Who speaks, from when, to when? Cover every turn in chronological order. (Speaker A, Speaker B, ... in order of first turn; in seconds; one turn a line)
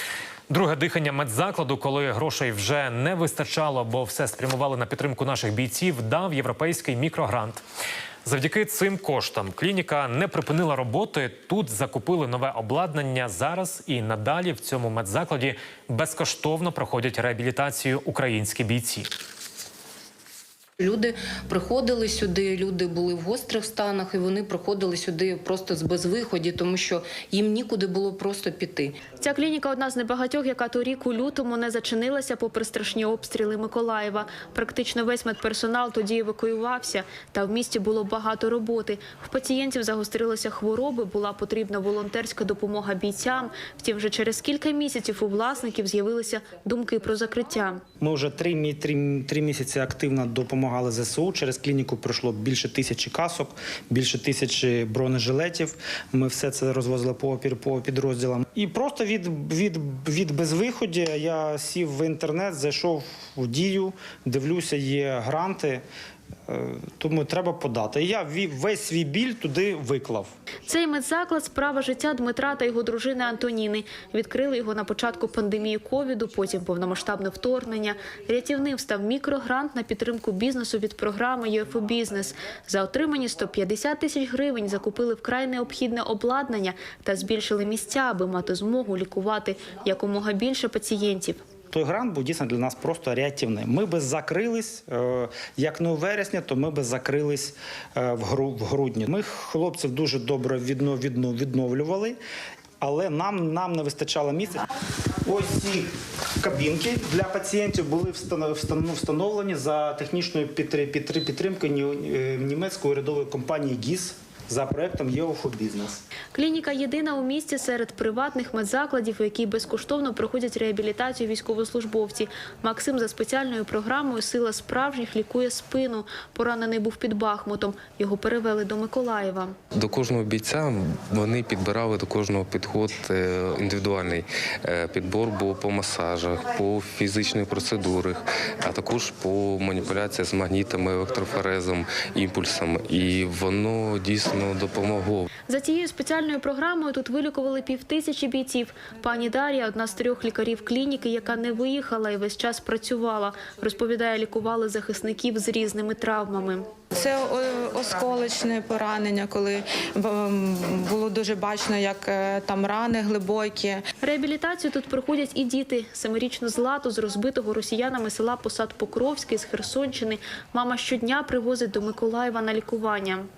Speaker A: 0.5-7.6
Speaker A: 8.2-19.1
Speaker B: 20.8-29.0
Speaker C: 29.1-47.8
Speaker D: 48.0-65.8
Speaker D: 66.5-70.3
Speaker C: 70.7-91.4
Speaker D: 91.7-102.2
Speaker D: 102.8-104.6
Speaker D: 105.2-116.0
Speaker C: 116.3-129.5
Speaker E: 129.7-145.3
Speaker C: 145.5-156.7
Speaker F: 156.9-163.8
Speaker C: 164.0-173.3